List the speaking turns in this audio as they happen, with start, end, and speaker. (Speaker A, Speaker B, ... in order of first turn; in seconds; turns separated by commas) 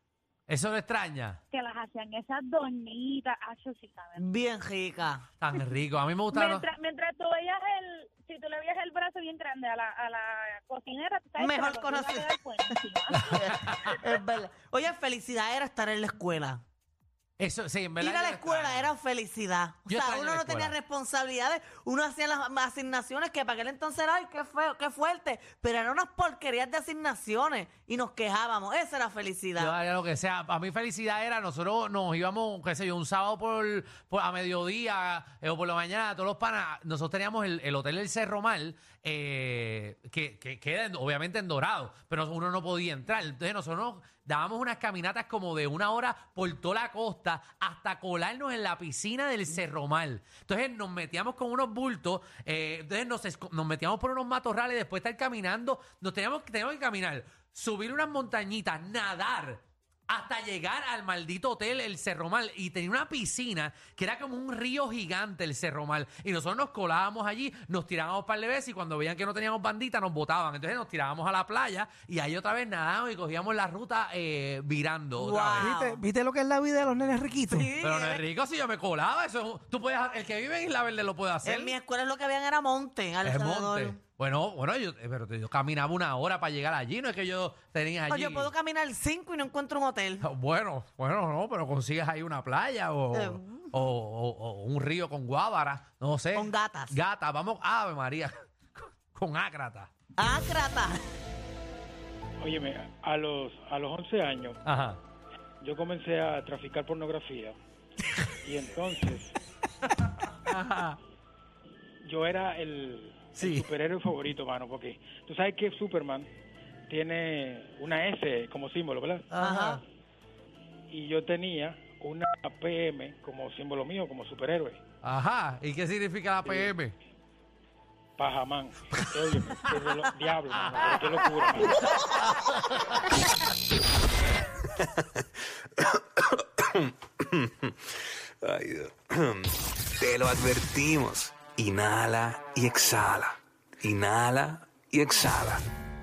Speaker A: 0.5-1.4, Speaker B: 1.5-4.2, Speaker C: 4.2-5.2, Speaker A: 5.4-6.7, Speaker B: 6.3-14.1, Speaker C: 11.4-16.6, Speaker A: 13.3-13.9, Speaker A: 17.4-18.9, Speaker C: 18.0-29.8, Speaker A: 19.9-20.8, Speaker A: 29.6-75.8, Speaker C: 75.2-76.0, Speaker D: 75.6-77.7, Speaker C: 77.5-78.2, Speaker A: 77.8-81.8, Speaker C: 81.4-84.0, Speaker A: 83.2-88.5, Speaker C: 88.1-90.2, Speaker A: 90.2-99.9, Speaker C: 93.1-93.9, Speaker C: 96.3-97.0, Speaker C: 100.2-101.1, Speaker E: 102.4-104.6, Speaker A: 104.6-105.0, Speaker E: 105.6-107.6, Speaker E: 108.5-109.3, Speaker A: 110.4-111.0, Speaker E: 112.0-116.3, Speaker A: 113.3-113.7, Speaker E: 116.9-119.2, Speaker C: 119.3-119.8, Speaker E: 120.9-124.8, Speaker A: 125.0-126.9, Speaker E: 128.2-131.7, Speaker A: 130.5-131.6, Speaker A: 132.4-133.0, Speaker F: 136.7-137.8, Speaker F: 138.4-145.7